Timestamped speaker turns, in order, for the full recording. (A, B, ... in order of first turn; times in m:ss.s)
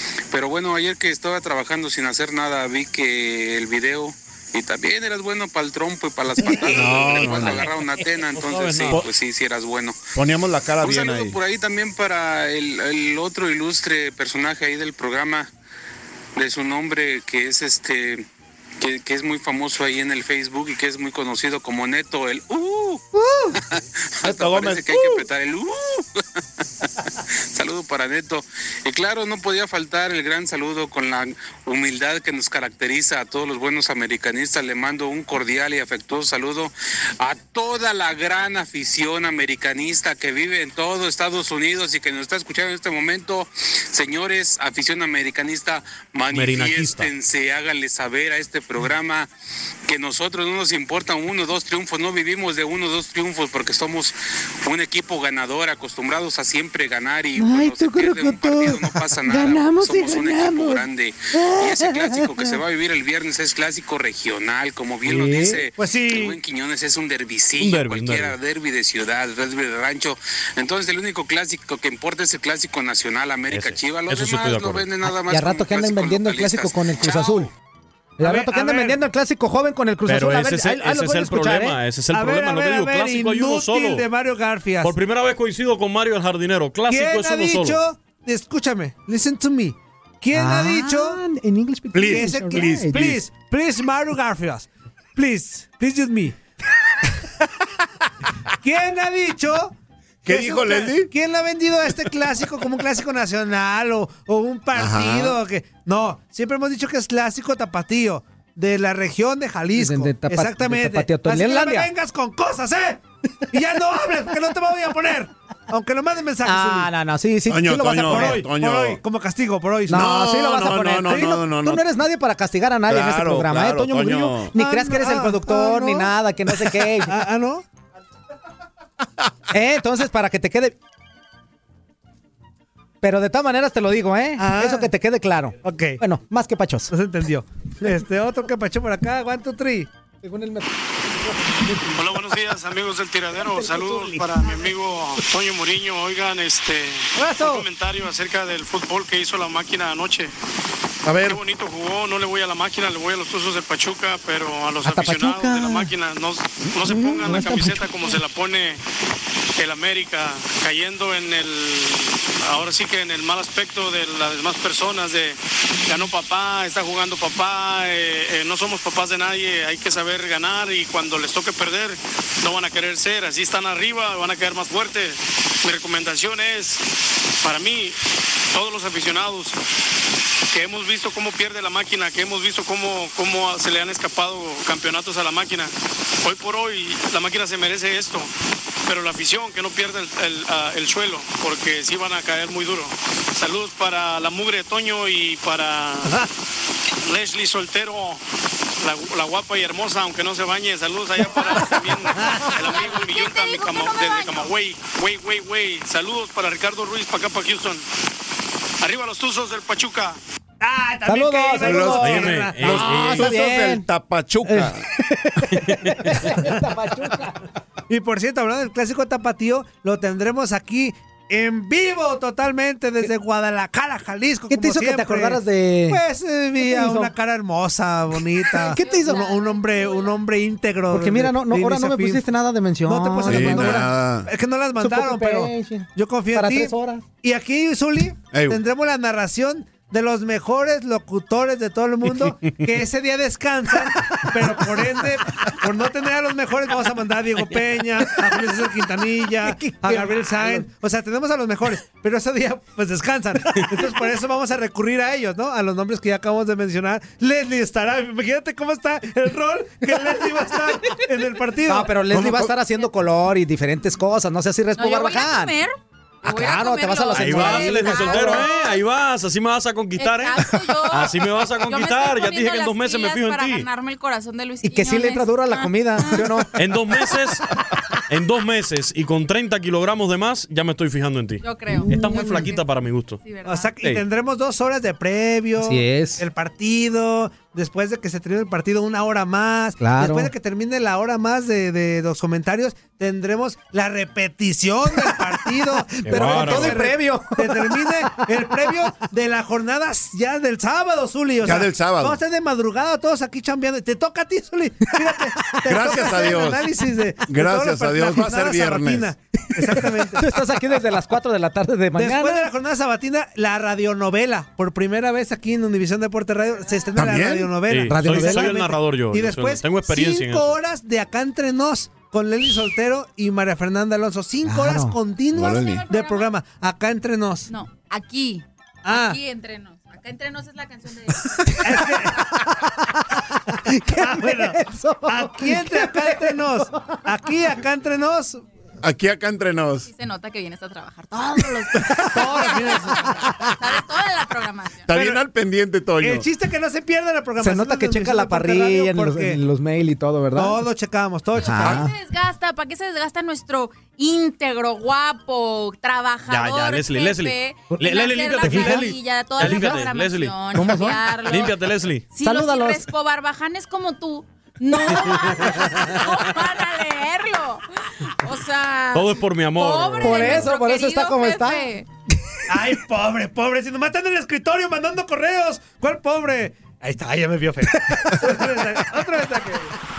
0:00.3-0:10.0 A
0:06.7-0:06.9 B
0:06.7-0:07.7 C
0:08.4-0:09.0 D
0:10.2-0:11.3 C
0:10.8-0:15.5 A
0:16.4-0:18.2 A
0:18.8-0:23.0 A
0:23.1-0:23.5 B
0:23.8-0:26.0 A
0:24.2-0:25.2 C
0:27.5-0:49.3 A
0:46.3-0:47.1 D
0:49.9-1:17.4 A
0:57.4-1:02.5 B
1:05.1-1:05.6 D
1:05.8-1:06.4 E
1:07.6-1:08.4 D
1:13.5-1:14.8 D
1:15.3-1:17.5 B
1:18.2-1:19.0 E
1:18.2-1:21.8 B
1:20.1-1:24.0 D
1:22.1-1:24.9 E
1:24.8-1:27.8 D
1:26.9-1:31.2 E
1:30.3-1:33.2 B
1:31.9-1:33.1 C
1:32.1-1:36.4 E
1:38.6-1:53.0 E
1:40.2-1:41.1 C
1:44.7-1:45.4 C
1:49.7-1:51.9 B
1:53.5-1:56.9 E
1:56.4-1:58.4 B
1:57.5-1:59.0 C
1:58.0-2:00.1 E
1:59.9-2:07.2 B
1:59.9-2:01.8 C
2:01.1-2:01.4 E
2:02.9-2:04.5 C
2:04.5-2:07.6 E
2:09.5-2:10.7 B
2:13.0-2:16.9 B
2:14.4-2:14.9 E
2:15.6-2:16.0 E
2:16.9-2:19.9 E
2:20.2-2:22.2 B
2:21.9-2:30.3 F
2:23.4-2:24.7 B
2:27.2-2:27.7 E
2:31.0-2:31.4 C
2:31.2-2:38.8 F
2:34.8-2:35.9 B
2:36.8-2:38.2 B
2:39.6-2:56.8 F
2:57.4-2:58.0 F
2:58.5-2:59.6 F
3:00.5-3:08.3 F
3:08.8-3:16.2 F
3:17.0-3:18.2 F
3:18.8-3:27.8 F
3:22.6-3:24.5 G
3:28.8-3:30.2 F
3:30.6-3:32.6 E
3:31.0-3:33.8 B
3:31.6-3:34.8 C
3:32.0-3:33.4 D
3:34.4-3:37.4 B
3:35.6-3:35.9 D
3:37.9-3:52.2 E
3:44.5-3:46.0 B
3:46.6-3:47.1 B
3:48.5-3:49.3 B
3:48.6-3:50.2 G
3:50.9-3:53.9 B
3:52.8-4:21.9 E
3:53.2-3:54.3 C
3:54.8-3:57.0 B
3:58.3-3:58.6 C
4:04.3-4:04.9 B
4:08.0-4:08.4 B
4:09.4-4:10.7 B
4:21.7-4:25.5 B
4:22.1-4:22.5 C
4:24.8-4:28.8 G
4:26.2-4:28.4 B
4:27.2-4:33.7 D
4:30.0-4:36.2 G
4:34.6-4:36.5 B
4:36.6-4:37.4 D
4:38.1-4:43.2 D
4:41.4-4:42.6 G
4:43.2-4:43.7 G
4:43.4-5:10.3 E
4:45.6-4:46.2 B
4:49.8-4:50.3 B
4:56.0-4:58.3 B
4:56.0-4:56.8 D
5:01.4-5:02.2 C
5:05.0-5:06.1 B
5:05.6-5:06.6 C
5:07.2-5:09.1 C
5:09.6-5:12.5 B
5:11.9-5:27.5 E
5:16.9-5:17.5 C
5:17.7-5:20.6 D
5:17.8-5:18.6 B
5:24.4-5:25.0 B
5:25.3-5:25.8 C
5:25.5-5:26.3 G
5:27.5-5:31.6 G
5:28.8-5:29.2 E
5:31.6-5:32.1 B
5:31.6-5:32.2 E
5:33.0-5:33.2 B
5:33.8-5:37.1 B
5:33.9-5:38.4 E
5:38.8-5:39.9 C
5:39.8-5:44.9 G
5:41.8-5:43.5 B
5:42.1-5:43.0 E
5:44.9-5:46.2 C
5:44.9-5:45.2 E
5:46.0-5:49.4 E
5:47.4-5:50.6 B
5:50.3-5:51.9 E
5:51.4-5:51.9 B
5:51.6-6:01.5 G
5:56.3-6:00.6 D
5:58.4-5:58.8 B
5:59.4-5:59.8 B
6:00.5-6:01.0 B
6:01.3-6:02.0 D
6:02.1-6:11.8 G
6:02.2-6:02.8 B
6:08.9-6:10.5 D
6:10.0-6:11.7 B
6:12.5-6:19.7 E